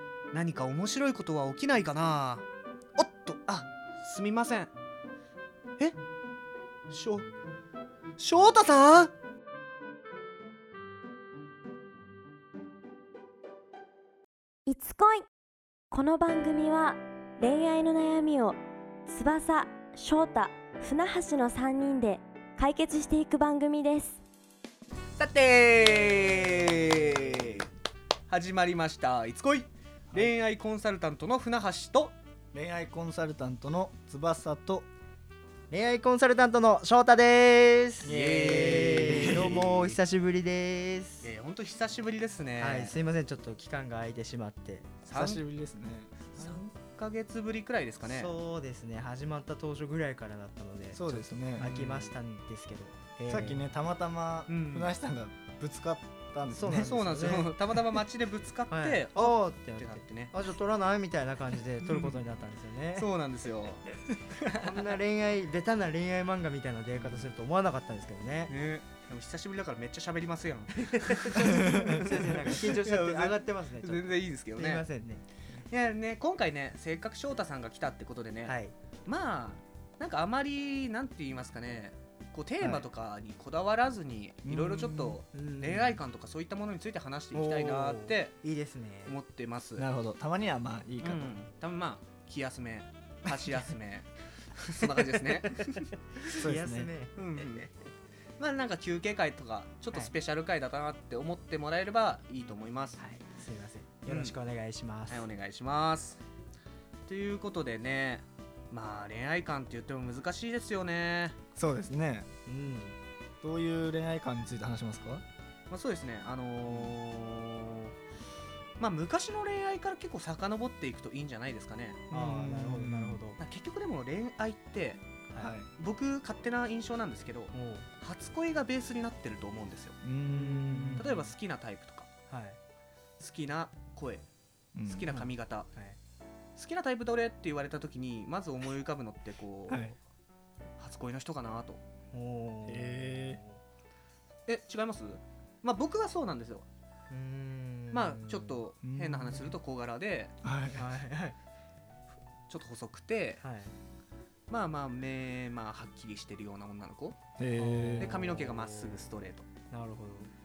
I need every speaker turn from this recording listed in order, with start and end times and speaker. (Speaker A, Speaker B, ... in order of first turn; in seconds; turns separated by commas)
Speaker A: 0.3-2.4, Speaker A: 3.0-4.7, Speaker A: 6.9-7.3, Speaker A: 8.2-9.1, Speaker B: 14.7-15.3, Speaker B: 15.9-24.2, Speaker A: 25.2-27.7, Speaker A: 28.3-32.1, Speaker C: 32.5-34.9, Speaker D: 35.7-41.3, Speaker A: 38.0-39.8, Speaker C: 38.0-40.0, Speaker A: 41.2-43.0, Speaker D: 42.6-44.9, Speaker A: 45.0-45.4, Speaker C: 45.1-46.2, Speaker A: 46.3-48.3, Speaker D: 46.4-46.6, Speaker D: 48.0-53.7, Speaker C: 50.9-51.7, Speaker A: 51.6-52.1, Speaker C: 53.3-57.0, Speaker A: 54.5-54.9, Speaker D: 56.5-57.6, Speaker A: 56.7-60.3, Speaker D: 58.7-63.1, Speaker A: 63.0-64.7, Speaker D: 64.5-68.5, Speaker A: 67.0-67.3, Speaker A: 68.5-74.8, Speaker D: 70.8-75.7, Speaker C: 71.6-72.0, Speaker A: 75.7-88.4, Speaker D: 78.4-78.8, Speaker C: 82.6-82.9, Speaker C: 84.4-85.2, Speaker D: 85.3-86.0, Speaker D: 87.3-89.2, Speaker A: 89.1-89.8, Speaker C: 89.8-91.3, Speaker A: 91.0-95.9, Speaker D: 96.2-97.4, Speaker C: 96.3-96.9, Speaker A: 97.2-97.7, Speaker A: 98.4-103.0, Speaker D: 103.0-105.3, Speaker A: 104.1-104.3, Speaker A: 105.1-106.2, Speaker A: 107.1-111.4, Speaker C: 111.6-112.3, Speaker D: 112.5-113.0, Speaker C: 113.4-115.2, Speaker A: 115.7-117.9, Speaker A: 118.8-122.0, Speaker C: 122.1-123.2, Speaker D: 122.1-123.4, Speaker A: 123.4-125.0, Speaker D: 125.3-125.6, Speaker C: 125.4-125.7, Speaker A: 125.8-130.0, Speaker D: 127.5-127.9, Speaker C: 130.0-131.2, Speaker D: 130.3-131.2, Speaker A: 131.0-132.1, Speaker D: 132.3-132.6, Speaker A: 133.2-134.3, Speaker C: 134.8-135.1, Speaker A: 134.9-135.7, Speaker D: 135.1-136.0, Speaker A: 136.6-139.9, Speaker C: 139.7-140.0, Speaker A: 140.8-141.8, Speaker D: 142.1-143.6, Speaker C: 142.7-143.4, Speaker A: 144.5-146.7, Speaker D: 147.1-148.6, Speaker A: 147.9-150.3, Speaker C: 148.8-149.6, Speaker C: 150.4-151.0, Speaker D: 150.8-151.4, Speaker A: 152.5-153.4, Speaker D: 153.4-153.7, Speaker A: 154.5-157.2, Speaker C: 157.4-158.2, Speaker D: 157.5-159.1, Speaker A: 158.0-159.5, Speaker D: 159.7-160.3